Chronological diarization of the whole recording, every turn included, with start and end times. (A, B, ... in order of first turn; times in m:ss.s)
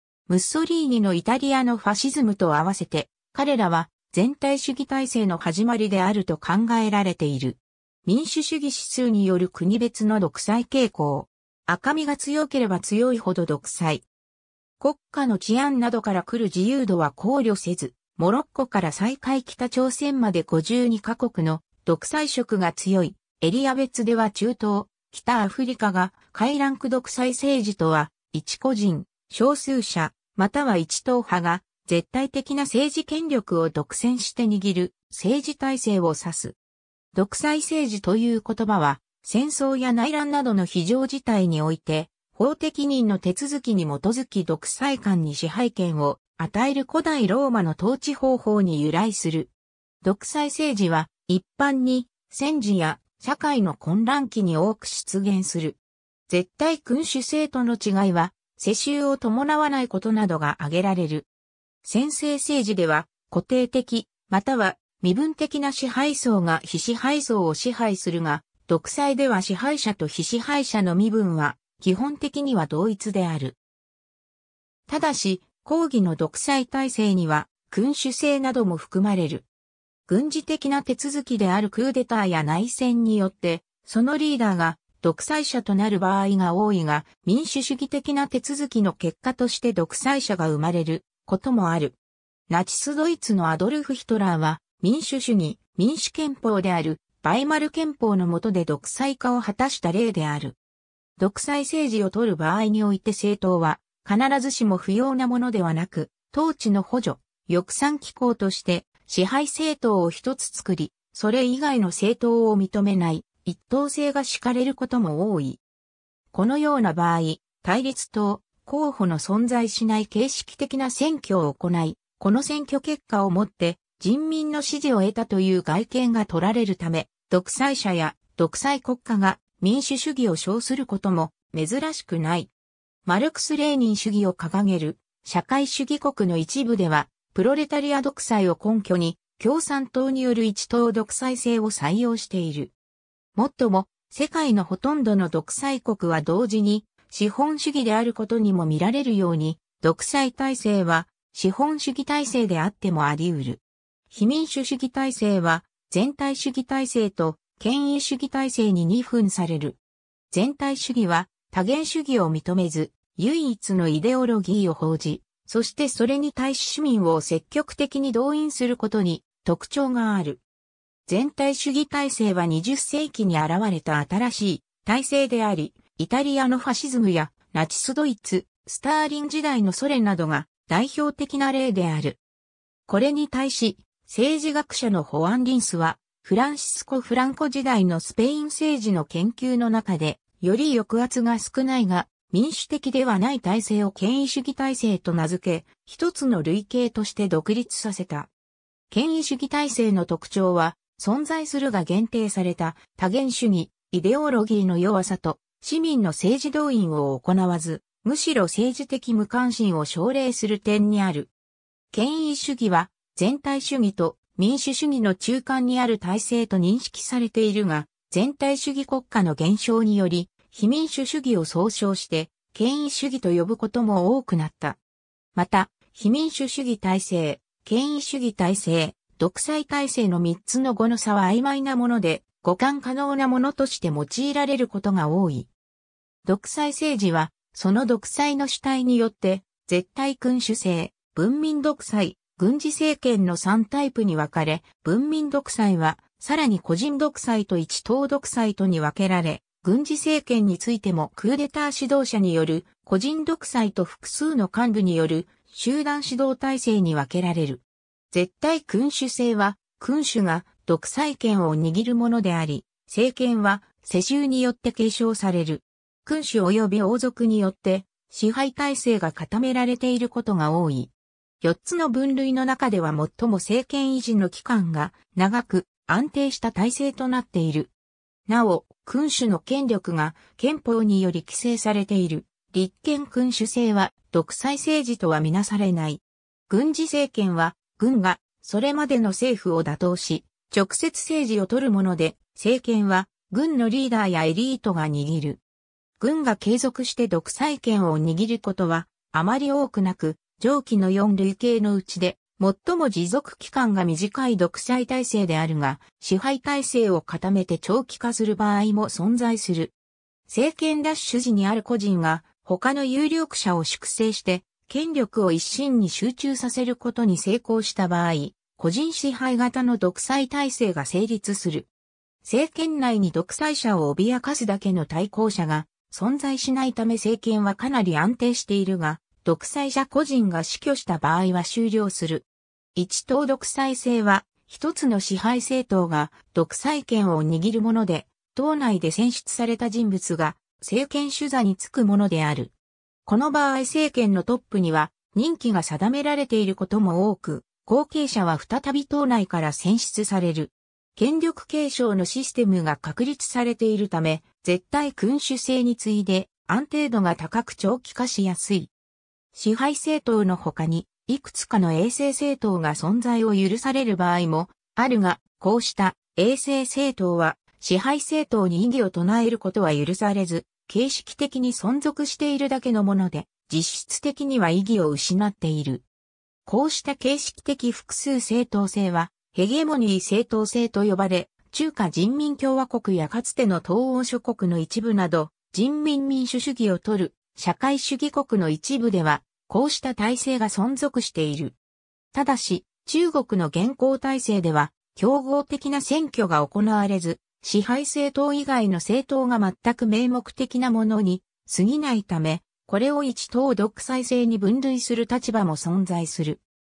0:00.3-0:14.0 A
0:14.8-0:36.6 A
0:37.1-0:55.8 A
0:56.3-1:01.3 A
1:01.8-1:13.6 A
1:14.9-1:19.4 A
1:20.1-1:32.0 A
1:32.5-1:40.6 A
1:41.2-1:55.6 A
1:56.3-2:12.5 A
2:13.0-2:22.7 A
2:23.3-2:39.8 A
2:40.3-2:50.4 A
2:51.1-3:02.2 A
3:02.9-3:18.3 A
3:18.9-3:31.3 A
3:31.9-3:44.8 A
3:45.3-3:55.5 A
3:56.2-4:37.7 A
4:38.3-4:55.4 A
4:56.0-5:09.7 A
5:10.3-5:21.7 A
5:22.2-5:42.5 A
5:43.0-5:58.7 A
5:59.3-6:15.8 A
6:16.4-6:31.6 A
6:32.1-6:46.4 A